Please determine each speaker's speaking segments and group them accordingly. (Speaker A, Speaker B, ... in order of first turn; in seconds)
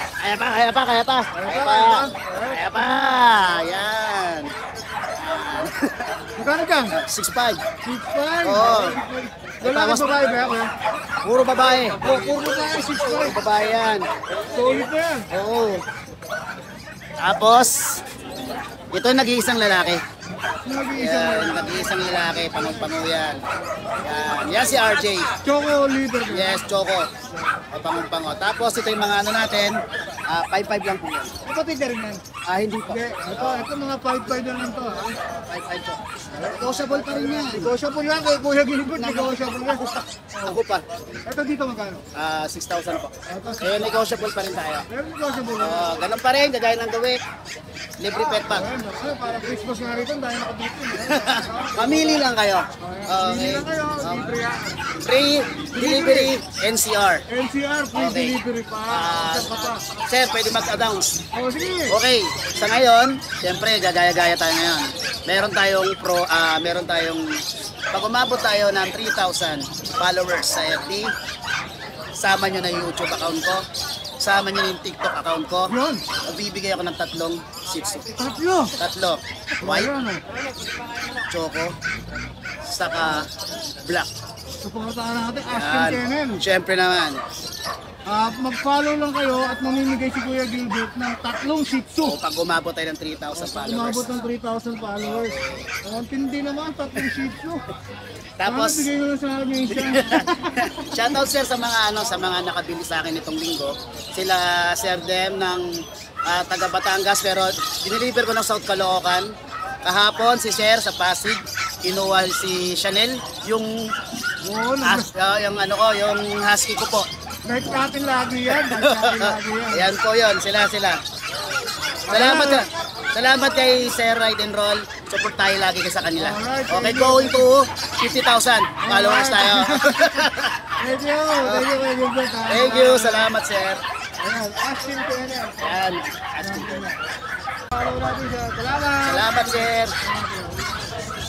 Speaker A: 0.2-4.5, 5.2-6.1, 7.0-7.6, 8.4-9.0, 9.6-10.6, 11.2-12.3, 13.0-14.1, 15.3-15.8, 17.2-17.8, 18.9-20.0, 20.9-23.4, 24.0-25.3, 26.3-27.1, 27.7-29.8, 30.3-31.3, 32.5-33.7, 35.5-37.7, 39.0-39.8, 40.4-40.9, 42.2-44.9, 45.6-47.2, 48.0-48.7, 50.9-54.3, 55.0-57.2, 57.9-58.4, 58.9-61.1, 61.9-67.3, 67.9-71.1, 72.2-73.7, 74.2-78.1, 78.8-79.9, 81.3-81.7, 82.7-83.3, 83.8-84.1, 85.5-87.2, 92.0-94.2, 95.0-95.7, 98.4-98.9, 99.7-105.7, 106.3-109.3, 109.8-113.7, 114.8-117.1, 118.5-121.0, 122.1-130.5, 131.4-131.7, 132.5-133.8, 135.6-136.9, 139.1-139.9
Speaker B: 1.4-2.7, 6.4-6.9, 7.8-10.7, 11.7-13.4, 14.5-15.2, 20.6-23.0, 25.4-26.6, 31.5-32.2, 32.9-35.1, 36.4-39.8, 41.3-42.0, 43.3-43.8, 44.9-45.9, 48.3-52.1, 52.8-54.8, 55.8-56.3, 57.3-59.8, 61.3-62.0, 75.7-76.0, 78.2-78.7, 79.6-80.2, 84.6-86.4, 88.1-92.2, 93.4-97.6, 98.5-100.6, 114.4-115.1, 117.5-119.8, 122.1-122.6, 126.2-127.5, 128.8-130.0, 130.8-133.3, 134.2-135.8, 136.4-136.9, 137.7-140.7